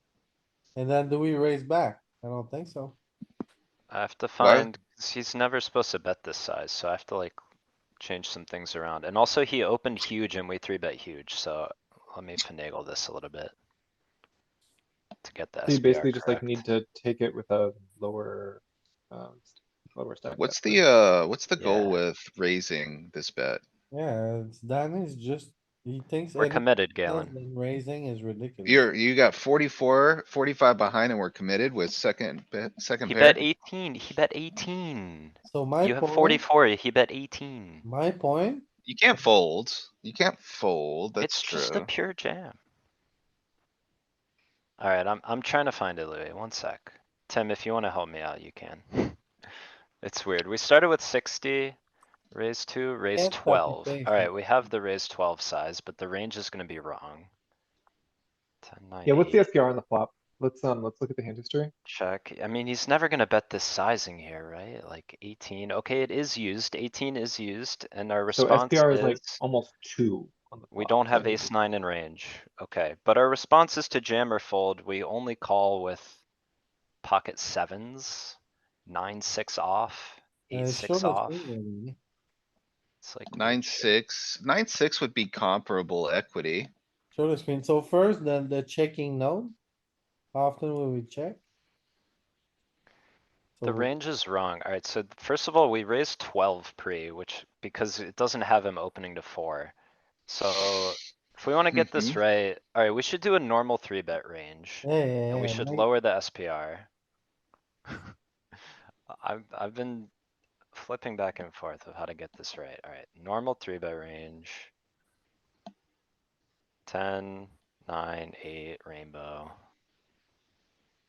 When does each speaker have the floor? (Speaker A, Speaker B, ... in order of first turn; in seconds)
Speaker A: 0.8-3.0, 23.9-28.8, 35.5-36.4, 37.8-38.6, 53.1-54.3, 80.5-82.0, 87.1-89.5, 90.3-91.4, 93.6-93.9, 104.8-105.8
Speaker B: 3.9-7.4, 8.0-13.5, 15.2-16.6, 21.6-22.0, 26.4-27.4, 33.1-37.8, 41.2-42.5, 44.8-49.2, 50.0-51.8, 52.3-57.3, 58.6-59.5, 61.8-69.4, 70.7-76.2, 77.0-81.5, 83.0-83.9, 93.6-99.7, 100.3-106.9, 109.1-110.1, 110.7-114.7, 116.8-119.5
Speaker C: 4.4-4.7, 20.3-23.6, 28.6-33.4, 38.9-41.9, 83.3-86.7, 101.7-102.2
Speaker D: 15.7-20.8, 59.0-61.7, 68.3-71.5